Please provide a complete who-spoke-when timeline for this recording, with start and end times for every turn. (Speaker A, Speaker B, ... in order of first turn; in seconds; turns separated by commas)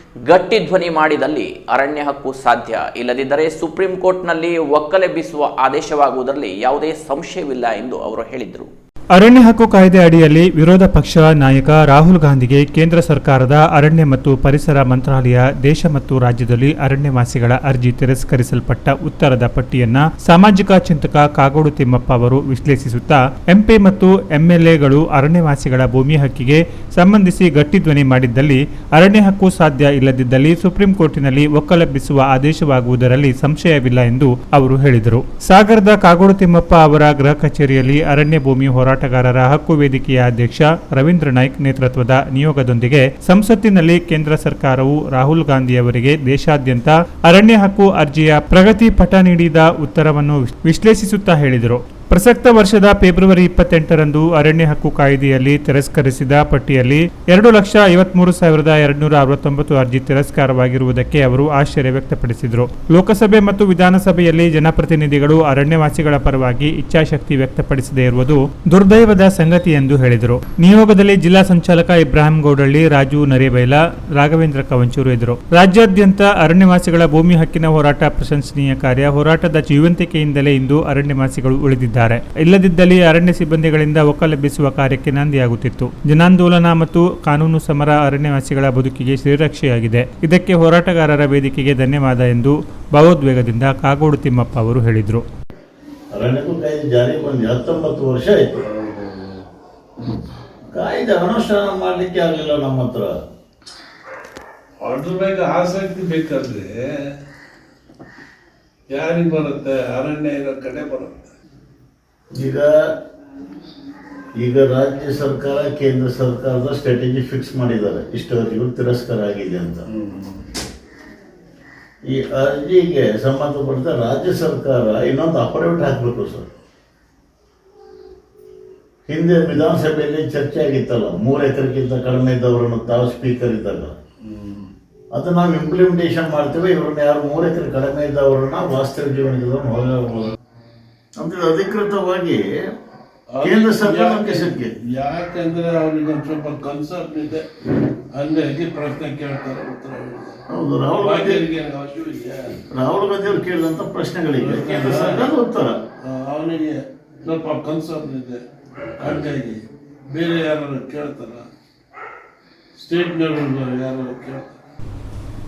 Speaker A: 0.3-8.7, Speaker B: 9.1-95.2, Speaker C: 96.1-98.6, Speaker D: 98.7-99.4, Speaker C: 100.7-103.1, Speaker D: 104.8-107.2, Speaker D: 108.9-111.3, Speaker C: 112.3-112.7, Speaker C: 114.4-119.9, Speaker D: 119.9-120.5, Speaker C: 122.0-126.5, Speaker C: 129.1-133.9, Speaker D: 134.2-134.7, Speaker C: 135.1-140.3, Speaker C: 141.2-142.5, Speaker D: 143.3-147.5, Speaker C: 143.4-144.7, Speaker D: 148.1-150.4, Speaker C: 150.5-151.4, Speaker D: 151.0-152.6, Speaker C: 152.7-155.8, Speaker D: 154.4-155.3, Speaker D: 156.0-158.4, Speaker D: 159.0-161.5, Speaker D: 162.8-164.5